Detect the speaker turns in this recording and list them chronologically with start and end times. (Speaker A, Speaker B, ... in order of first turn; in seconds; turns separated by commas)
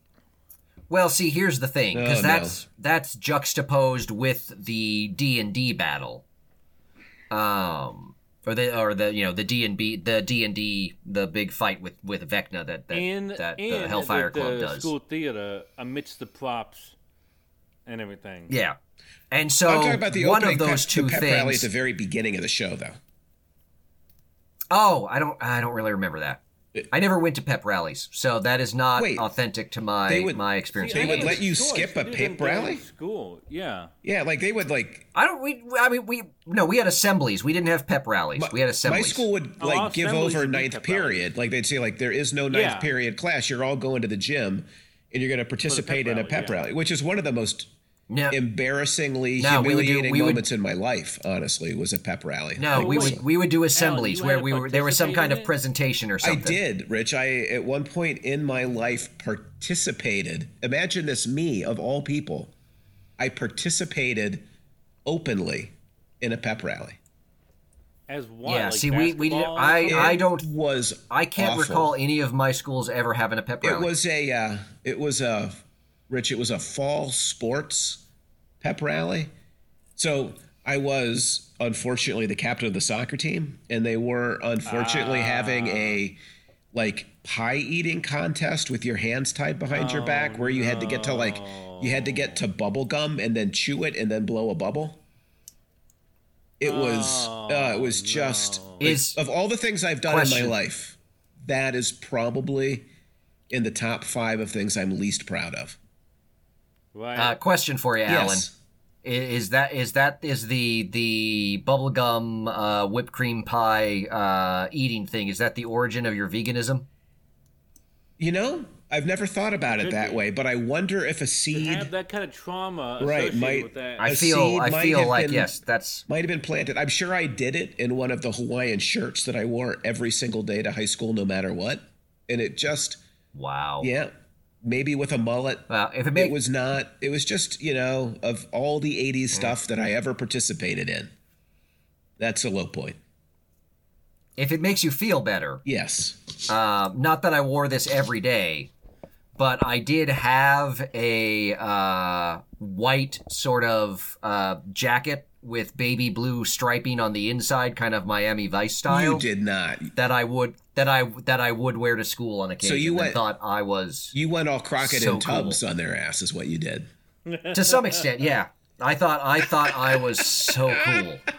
Speaker A: 0.9-6.2, Speaker B: 1.9-2.6, Speaker A: 7.3-14.9, Speaker C: 12.9-16.9, Speaker C: 17.9-18.5, Speaker A: 18.5-18.8, Speaker A: 19.3-21.7, Speaker B: 19.6-23.0, Speaker A: 24.7-26.4, Speaker A: 26.9-31.4, Speaker B: 28.9-29.3, Speaker B: 30.1-32.8, Speaker C: 30.8-33.9, Speaker B: 34.0-35.1, Speaker A: 35.1-39.2, Speaker B: 38.4-47.7, Speaker C: 39.6-41.3, Speaker C: 42.5-42.9, Speaker C: 45.7-46.6, Speaker A: 48.1-48.4, Speaker B: 48.3-53.2, Speaker A: 49.4-50.4, Speaker A: 52.6-56.6, Speaker C: 52.7-53.2, Speaker C: 53.7-55.5, Speaker B: 56.2-62.5, Speaker B: 63.2-64.4, Speaker B: 65.0-67.0, Speaker C: 68.1-70.2, Speaker A: 68.4-70.5, Speaker B: 69.9-71.9, Speaker A: 71.1-73.9, Speaker B: 73.6-78.0, Speaker B: 78.6-79.3, Speaker B: 80.0-86.2, Speaker C: 84.7-86.0, Speaker B: 86.7-95.0, Speaker C: 89.7-92.4, Speaker B: 96.6-102.8, Speaker C: 96.6-98.9, Speaker A: 98.8-99.2, Speaker A: 100.1-100.5, Speaker B: 103.5-105.8, Speaker C: 106.9-107.3, Speaker A: 107.2-108.5, Speaker B: 108.1-108.5, Speaker A: 109.0-116.8, Speaker B: 118.2-121.9, Speaker C: 119.7-120.2, Speaker C: 121.5-124.1, Speaker B: 123.0-125.5, Speaker A: 124.0-126.0, Speaker B: 126.1-133.0, Speaker A: 133.3-133.9, Speaker B: 133.8-141.1, Speaker A: 135.7-136.3, Speaker B: 142.2-143.0, Speaker A: 144.4-145.6, Speaker B: 145.6-146.2, Speaker A: 146.5-148.7, Speaker A: 149.4-159.2, Speaker B: 158.9-159.9, Speaker A: 159.9-164.1, Speaker B: 162.6-163.2, Speaker B: 164.1-166.9, Speaker A: 164.8-165.6, Speaker C: 167.2-168.1, Speaker A: 167.5-171.2